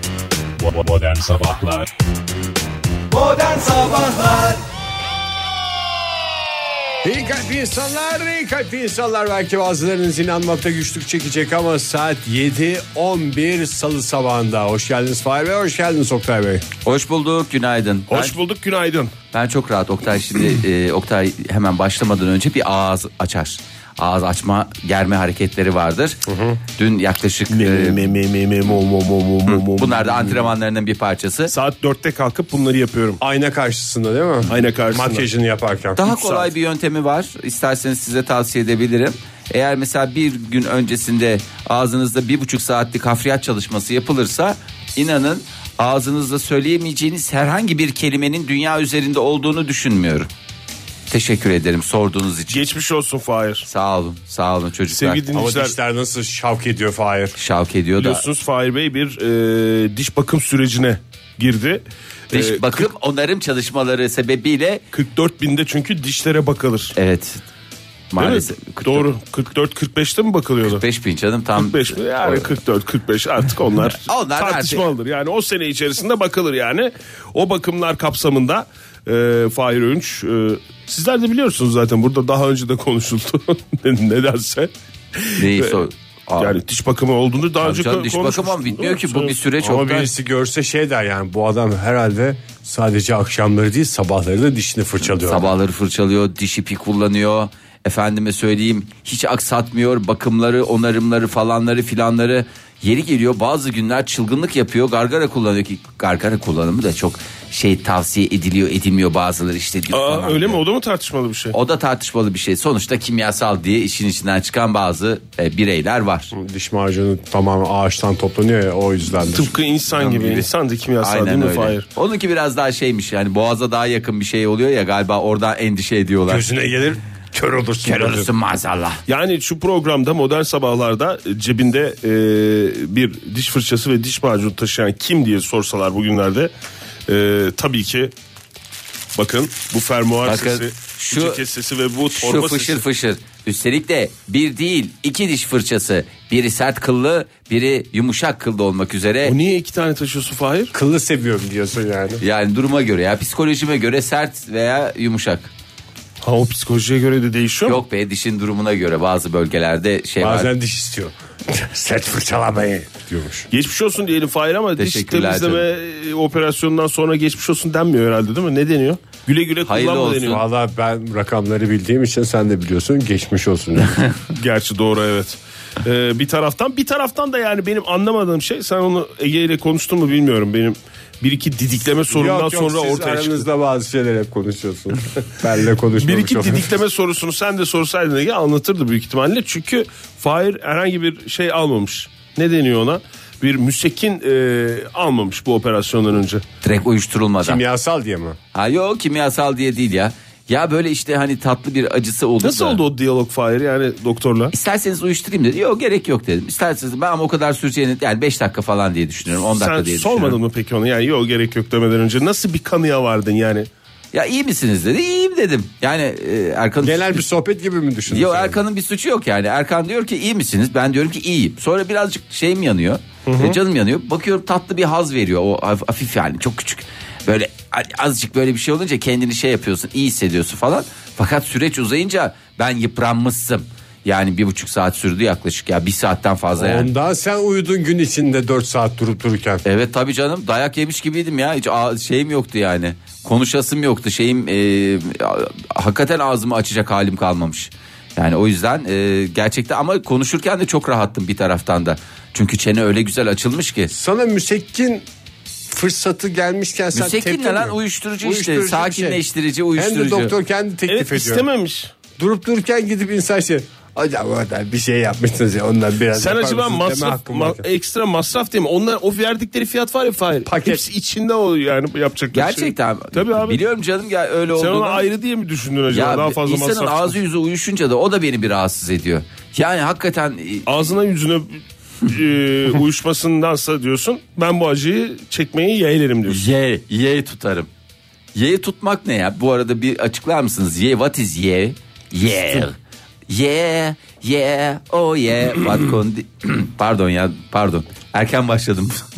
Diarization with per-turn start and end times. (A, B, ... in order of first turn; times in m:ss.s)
0:03.5-0:04.0 A
0:07.0-0:16.6 B
0:16.8-0:18.4 A
0:18.1-0:19.1 C
0:19.3-0:26.2 A
0:26.2-0:26.6 B
0:26.8-0:28.0 A
0:27.5-0:30.5 C
0:29.5-0:31.5 A
0:31.5-0:33.2 C
0:33.2-0:36.0 B
0:34.5-0:35.2 C
0:36.0-0:50.3 A
0:36.1-0:36.5 C
0:51.1-0:52.6 A
0:52.5-0:53.7 C
0:53.6-0:55.2 A
0:54.9-0:55.8 C
0:55.3-0:57.4 B
0:57.4-0:58.2 A
0:58.0-1:02.9 C
1:02.3-1:04.8 A
1:04.9-1:06.9 C
1:07.0-1:07.4 A
1:08.1-1:09.1 A
1:08.2-1:10.8 C
1:10.7-1:12.5 A
1:11.6-1:29.4 C
1:14.0-1:14.8 A
1:25.4-1:26.6 A
1:27.6-1:30.1 A
1:29.6-1:35.5 B
1:35.1-1:50.6 A
1:49.9-1:51.5 C
1:51.5-1:56.3 A
1:56.3-1:59.5 B
1:59.3-2:01.8 C
1:59.9-2:00.5 A
2:01.0-2:06.4 A
2:06.3-2:08.3 B
2:07.8-2:09.0 A
2:09.1-2:16.5 C
2:17.1-2:18.1 C
2:19.2-2:22.8 C
2:20.2-2:21.4 A
2:22.2-2:29.3 A
2:29.2-2:30.7 C
2:30.7-2:32.2 B
2:32.2-2:35.5 A
2:36.2-2:37.8 C
2:37.6-2:40.5 A
2:40.2-2:43.5 B
2:43.5-2:50.4 C
2:44.8-2:45.6 A
2:49.6-2:50.4 A
2:50.2-2:54.0 B
2:54.3-3:03.4 C
3:02.1-3:06.6 B
3:06.0-3:16.4 C
3:16.6-3:17.6 A
3:17.4-3:18.4 B
3:18.5-3:22.8 A
3:22.4-3:24.5 C
3:24.5-3:30.4 A
3:29.5-3:33.7 C
3:34.1-3:37.2 A
3:36.8-3:38.6 B
3:38.1-3:56.9 A
3:43.2-3:43.6 B
3:56.6-3:59.6 B
3:59.6-4:13.9 A
4:13.9-4:15.0 B
4:15.7-4:19.2 B
4:16.9-4:20.3 A
4:19.8-4:21.4 B
4:20.9-4:21.9 C
4:22.2-4:27.7 B
4:26.1-4:33.6 C
4:30.4-4:30.8 B
4:32.3-4:35.0 A
4:34.5-4:37.2 C
4:35.9-4:40.7 A
4:40.7-4:46.4 C
4:46.3-4:47.7 A
4:48.3-4:52.7 A
4:53.3-4:59.1 A